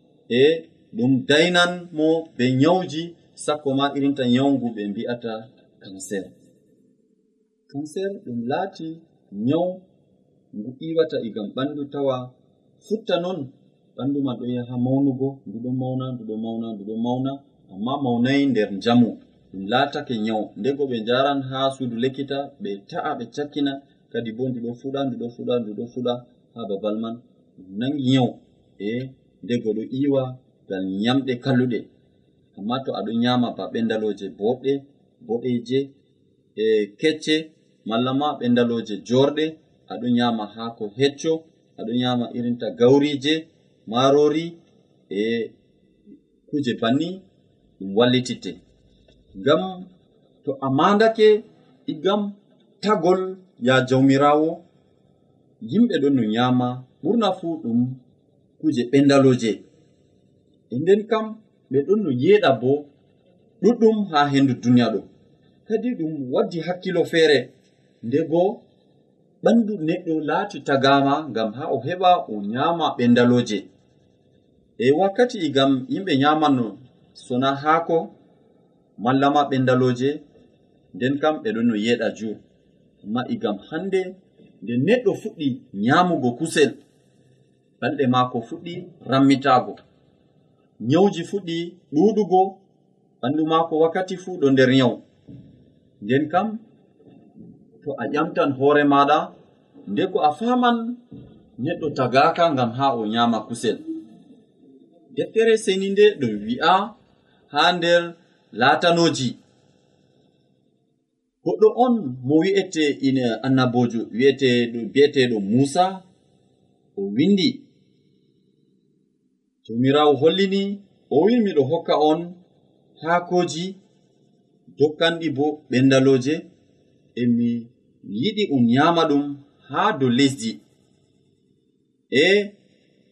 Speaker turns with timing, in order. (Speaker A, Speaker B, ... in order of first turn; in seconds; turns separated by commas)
Speaker A: 0.3-6.3, Speaker A: 7.7-9.8, Speaker A: 10.5-12.3, Speaker A: 12.8-31.9, Speaker A: 32.5-35.9, Speaker A: 36.5-44.5, Speaker A: 45.1-45.5, Speaker A: 46.5-47.2, Speaker A: 47.8-48.6, Speaker A: 49.4-49.9, Speaker A: 50.4-54.6, Speaker A: 55.6-58.0, Speaker A: 58.6-59.6, Speaker A: 60.7-62.9, Speaker A: 63.6-65.1, Speaker A: 65.7-67.5, Speaker A: 68.0-68.6, Speaker A: 69.4-73.6, Speaker A: 74.8-78.1, Speaker A: 79.0-80.2, Speaker A: 80.9-82.4, Speaker A: 83.0-86.8, Speaker A: 87.8-89.8, Speaker A: 90.8-92.6, Speaker A: 93.2-95.0, Speaker A: 96.0-96.6, Speaker A: 97.8-99.3, Speaker A: 99.9-101.0, Speaker A: 101.6-103.8, Speaker A: 105.1-106.9, Speaker A: 107.5-109.4, Speaker A: 111.4-116.0, Speaker A: 117.0-117.6, Speaker A: 119.6-122.4, Speaker A: 123.0-123.8, Speaker A: 124.8-126.4, Speaker A: 127.2-130.6, Speaker A: 132.1-132.5